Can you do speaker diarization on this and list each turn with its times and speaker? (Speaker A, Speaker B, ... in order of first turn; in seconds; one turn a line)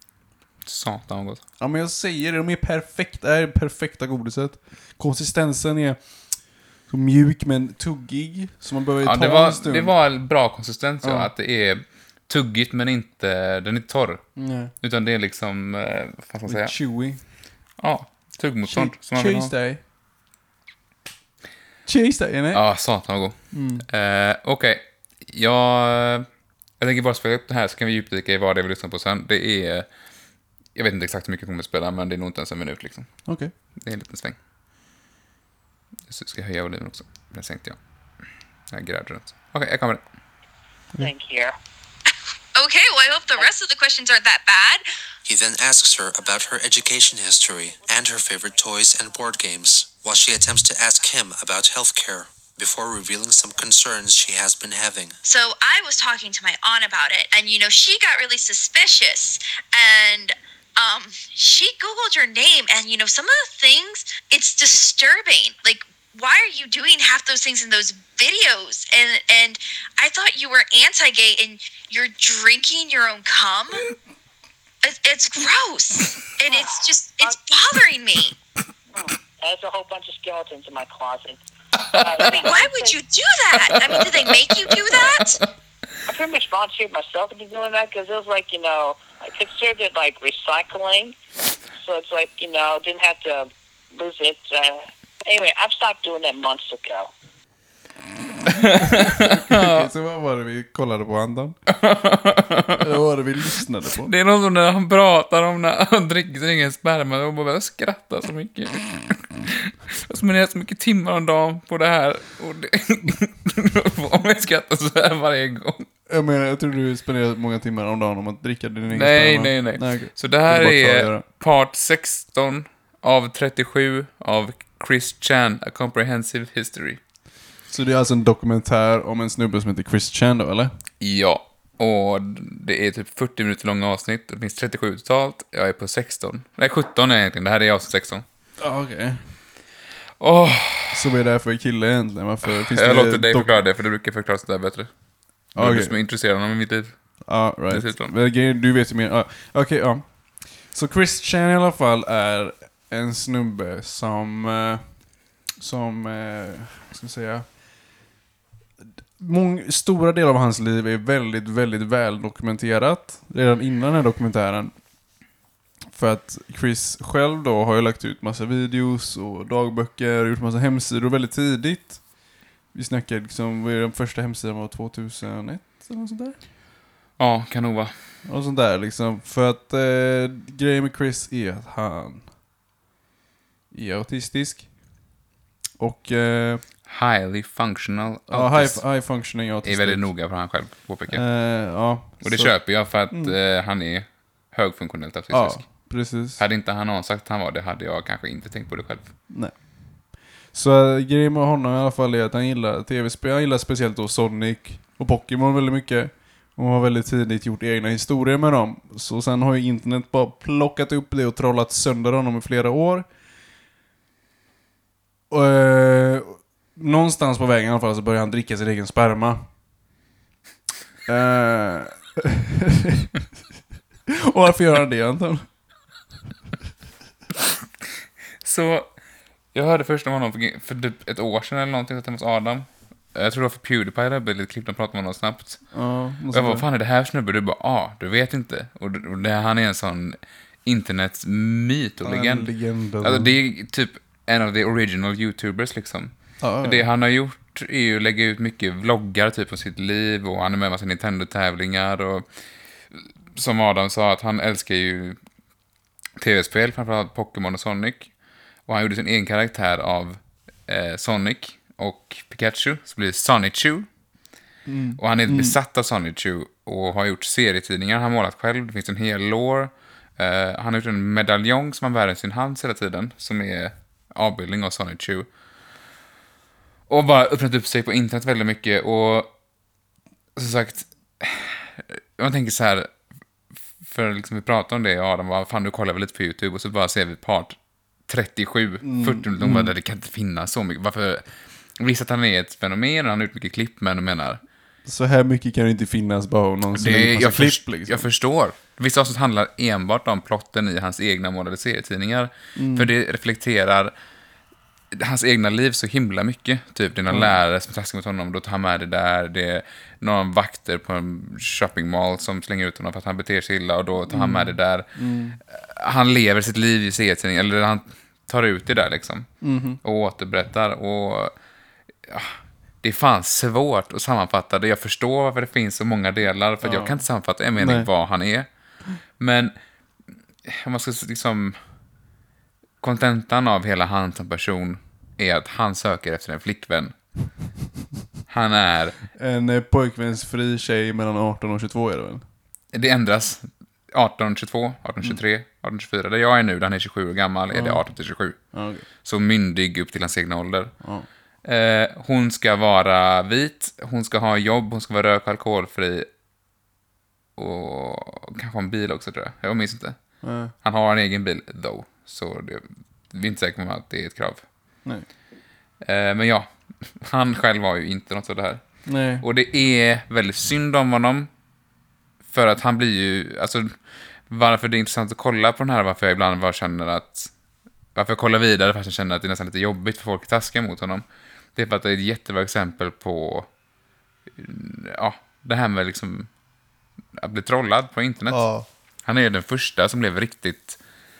Speaker A: 0.6-1.4
Speaker B: 1.6-9.9
Speaker A: 9.0-14.2
Speaker B: 11.0-11.3
Speaker B: 14.3-14.7
Speaker A: 14.8-16.7
Speaker B: 16.5-17.2
Speaker A: 17.8-19.5
Speaker B: 18.6-19.8
Speaker B: 21.9-22.6
Speaker A: 22.5-26.3
Speaker B: 23.5-23.8
Speaker A: 26.8-29.9
Speaker A: 30.7-33.1
Speaker B: 33.2-33.5
Speaker A: 33.8-34.4
Speaker A: 36.1-37.8
Speaker A: 38.7-40.0
Speaker C: 41.0-41.5
Speaker D: 42.5-44.8
Speaker E: 45.2-55.2
Speaker D: 55.2-73.9
Speaker D: 74.8-78.3
Speaker C: 76.5-77.4
Speaker C: 78.9-83.0
Speaker A: 81.8-82.3
Speaker D: 82.2-85.4
Speaker A: 83.7-85.4
Speaker C: 86.1-91.1
Speaker C: 91.8-97.1
Speaker A: 98.5-99.9
Speaker B: 98.8-101.6
Speaker A: 101.7-102.8
Speaker B: 102.8-104.1
Speaker A: 104.0-115.9
Speaker B: 116.1-121.2
Speaker A: 118.9-127.0
Speaker B: 127.7-130.7
Speaker A: 131.0-138.2
Speaker B: 138.6-139.3
Speaker A: 140.2-141.1
Speaker B: 140.9-143.6
Speaker A: 142.4-144.9
Speaker B: 145.5-145.9
Speaker A: 145.5-146.9
Speaker B: 147.2-157.5
Speaker A: 147.7-148.1
Speaker B: 159.2-164.9
Speaker B: 165.9-176.4
Speaker A: 177.2-177.9
Speaker B: 178.2-182.3
Speaker B: 183.7-185.1
Speaker B: 185.8-186.6
Speaker A: 186.8-188.9
Speaker B: 188.3-190.1
Speaker A: 189.6-191.2
Speaker B: 191.1-193.3
Speaker A: 192.2-199.1
Speaker B: 195.3-196.4
Speaker B: 199.3-213.1
Speaker B: 215.3-219.5
Speaker B: 221.1-223.1
Speaker B: 224.3-225.6
Speaker A: 228.4-228.9
Speaker A: 229.5-235.7
Speaker B: 235.7-236.6
Speaker A: 236.3-252.3
Speaker B: 242.0-243.3
Speaker B: 246.4-246.9
Speaker A: 252.9-255.2
Speaker A: 256.2-258.1
Speaker A: 258.7-263.9
Speaker B: 264.6-265.6
Speaker A: 265.0-275.3
Speaker A: 276.9-279.3
Speaker A: 280.4-282.9
Speaker A: 283.8-287.6
Speaker A: 288.1-294.4
Speaker B: 288.8-289.7
Speaker B: 294.8-298.1
Speaker A: 296.7-303.9
Speaker B: 302.5-302.9
Speaker A: 304.9-314.9
Speaker B: 307.1-307.4
Speaker B: 314.1-315.4
Speaker A: 315.5-321.3
Speaker B: 319.4-319.8
Speaker A: 322.1-328.5
Speaker B: 326.6-327.0
Speaker B: 327.6-327.9
Speaker A: 329.0-329.6
Speaker A: 330.4-331.6
Speaker A: 332.8-336.9
Speaker A: 338.3-339.0
Speaker B: 339.1-342.2
Speaker A: 342.7-348.5
Speaker B: 347.5-347.9
Speaker B: 348.4-348.9
Speaker A: 349.0-350.7
Speaker B: 350.8-351.1
Speaker A: 351.4-356.1
Speaker A: 357.4-360.0
Speaker B: 360.2-360.5
Speaker A: 360.6-364.4
Speaker A: 365.8-368.6
Speaker B: 368.9-369.2
Speaker A: 369.2-371.3
Speaker A: 372.3-373.8
Speaker A: 374.3-377.3
Speaker A: 377.9-381.0
Speaker A: 381.5-383.5
Speaker A: 384.3-386.3
Speaker A: 387.1-388.5
Speaker B: 388.3-388.6
Speaker A: 389.0-390.8